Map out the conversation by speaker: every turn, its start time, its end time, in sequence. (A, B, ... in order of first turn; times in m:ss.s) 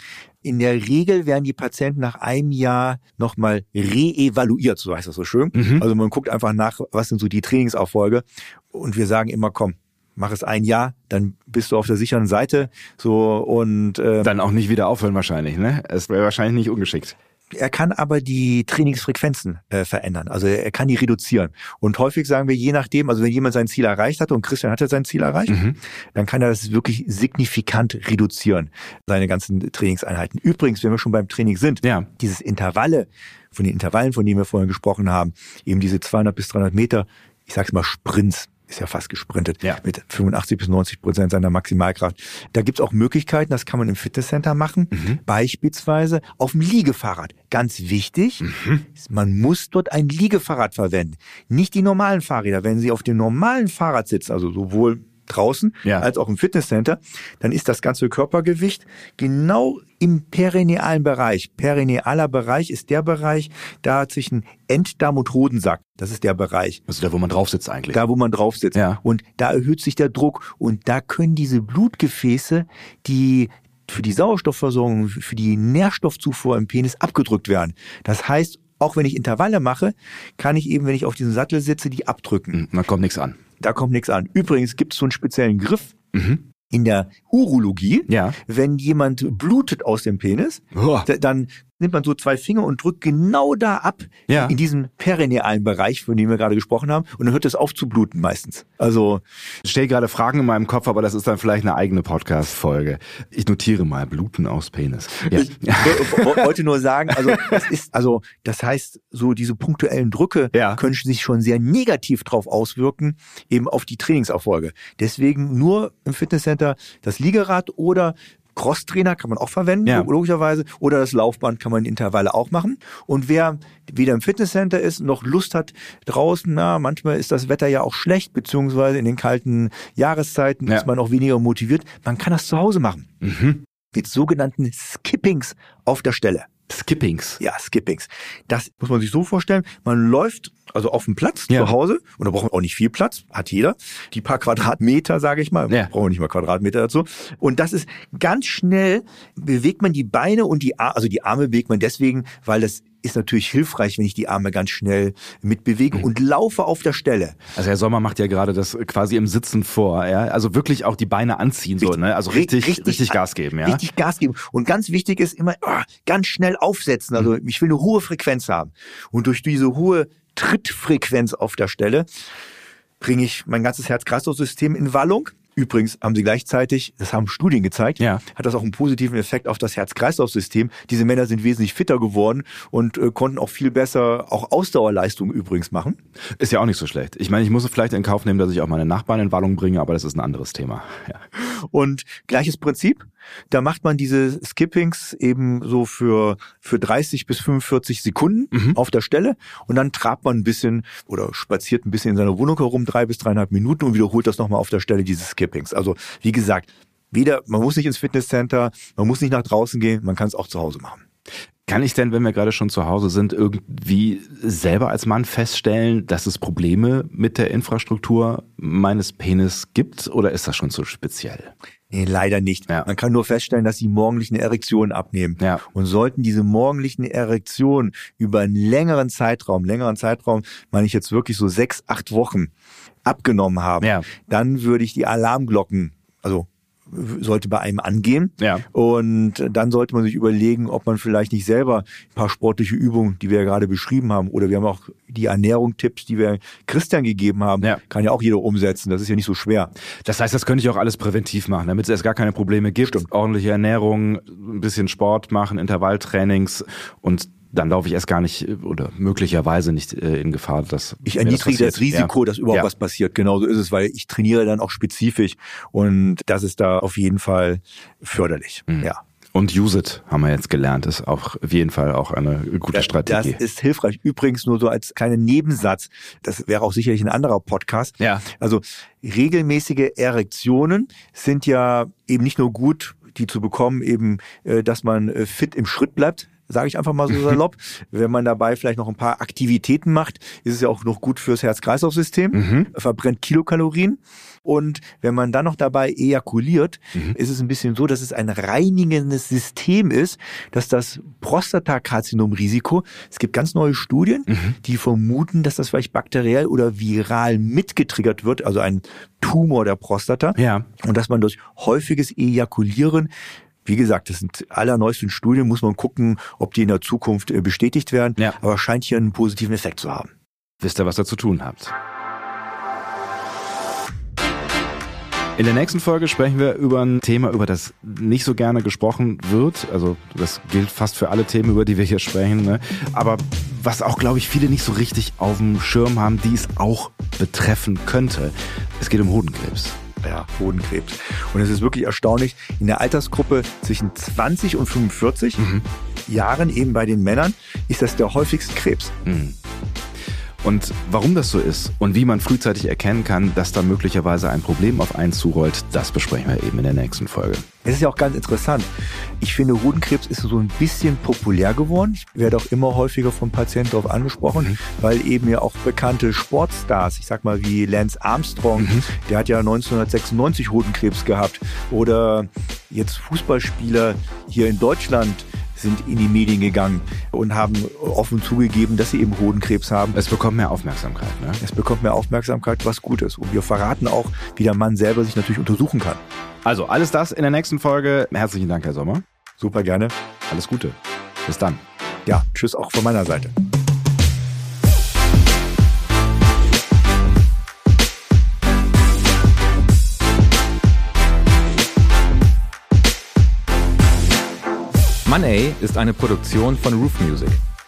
0:00.4-0:14.3 A
0:05.5-0:05.8 B
0:14.2-0:17.2 B
0:17.5-0:25.6 A
0:25.5-0:25.8 B
0:26.1-1:06.8 A
0:44.9-0:45.2 B
0:48.4-0:48.8 B
1:06.9-1:08.0 B
1:07.9-1:22.6 A
1:22.5-1:23.4 B
1:23.6-1:25.9 A
1:26.1-1:26.4 B
1:26.7-1:39.2 A
1:28.1-1:28.4 B
1:30.7-1:31.1 B
1:34.3-1:34.5 B
1:39.6-1:46.5 B
1:45.3-2:13.1 A
1:47.1-1:47.6 B
1:50.5-1:50.8 B
2:13.2-2:13.6 B
2:13.9-2:16.5 A
2:16.7-2:17.4 B
2:17.4-2:37.4 A
2:37.5-2:43.8 B
2:41.8-2:52.1 A
2:53.0-3:06.0 A
3:06.4-3:11.2 B
3:11.4-3:31.0 A
3:31.7-3:41.5 B
3:41.9-3:52.5 A
3:53.0-4:09.7 A
3:53.8-3:54.1 B
3:58.4-3:58.6 B
4:10.0-4:22.7 B
4:21.1-4:29.0 A
4:28.7-4:33.4 B
4:32.7-5:13.1 A
4:38.0-4:38.2 B
4:52.3-4:52.7 B
5:04.3-5:04.6 B
5:10.4-5:10.7 B
5:13.6-5:20.1 A
5:20.6-5:21.7 B
5:25.4-5:39.8 B
5:40.0-5:45.4 A
5:45.4-5:45.6 B
5:46.1-5:48.9 A
5:49.0-5:49.4 B
5:50.4-5:57.4 B
5:57.6-6:20.0 A
6:08.6-6:08.9 B
6:19.9-6:21.4 B
6:21.4-6:26.0 A
6:26.4-6:29.0 B
6:29.4-6:29.9 A
6:30.3-6:31.6 B
6:32.1-6:33.3 A
6:45.1-6:47.4 C